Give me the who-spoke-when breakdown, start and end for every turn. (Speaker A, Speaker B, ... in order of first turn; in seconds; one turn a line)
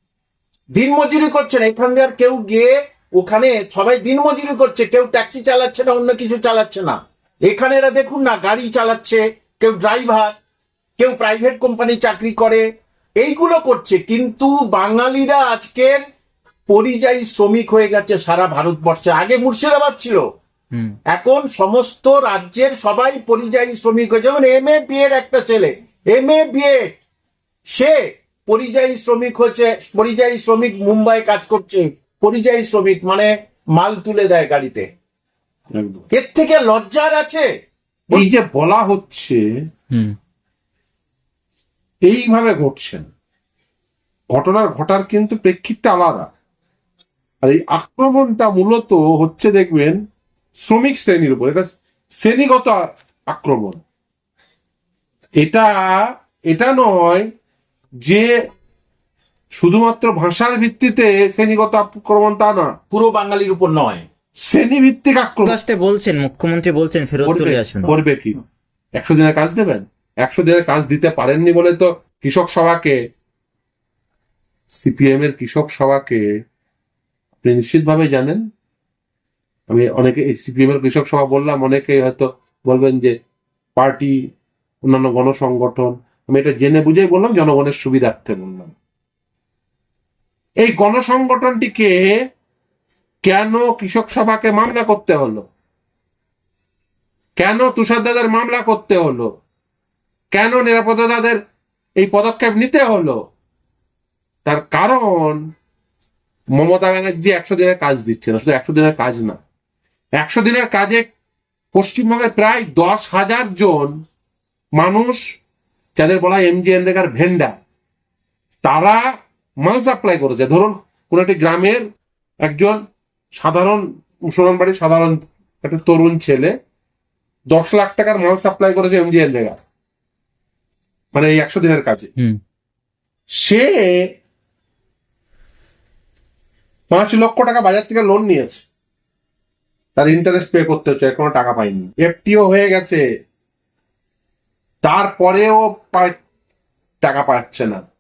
Speaker A: 0.7-7.0
Speaker A: 7.5-10.3
Speaker A: 11.0-12.6
Speaker A: 13.2-16.0
Speaker A: 16.7-20.2
Speaker A: 21.1-27.0
Speaker A: 27.7-34.9
Speaker B: 35.7-36.0
Speaker A: 36.1-37.5
Speaker B: 38.1-39.4
Speaker B: 42.1-43.1
Speaker B: 44.3-46.3
Speaker B: 47.4-50.0
Speaker B: 50.6-53.8
Speaker B: 55.4-57.3
Speaker B: 58.0-58.3
Speaker B: 59.6-62.7
Speaker A: 62.9-64.0
Speaker B: 64.5-65.6
Speaker C: 65.5-68.0
Speaker B: 67.2-68.4
Speaker B: 69.0-73.0
Speaker B: 74.7-76.2
Speaker B: 77.4-78.4
Speaker B: 79.7-83.2
Speaker B: 83.8-84.2
Speaker B: 84.9-88.8
Speaker B: 90.6-92.1
Speaker B: 93.2-95.5
Speaker B: 97.4-99.3
Speaker B: 100.3-101.4
Speaker B: 102.0-103.2
Speaker B: 104.5-105.4
Speaker B: 106.6-109.4
Speaker B: 110.2-111.1
Speaker B: 111.7-114.0
Speaker B: 114.8-115.3
Speaker B: 116.0-117.5
Speaker B: 118.6-119.0
Speaker B: 119.6-121.8
Speaker B: 122.4-122.8
Speaker B: 123.4-126.5
Speaker B: 127.5-129.6
Speaker B: 131.1-132.1
Speaker B: 133.4-134.0
Speaker B: 136.9-138.6
Speaker B: 140.0-143.0
Speaker B: 144.8-146.2
Speaker B: 147.0-147.9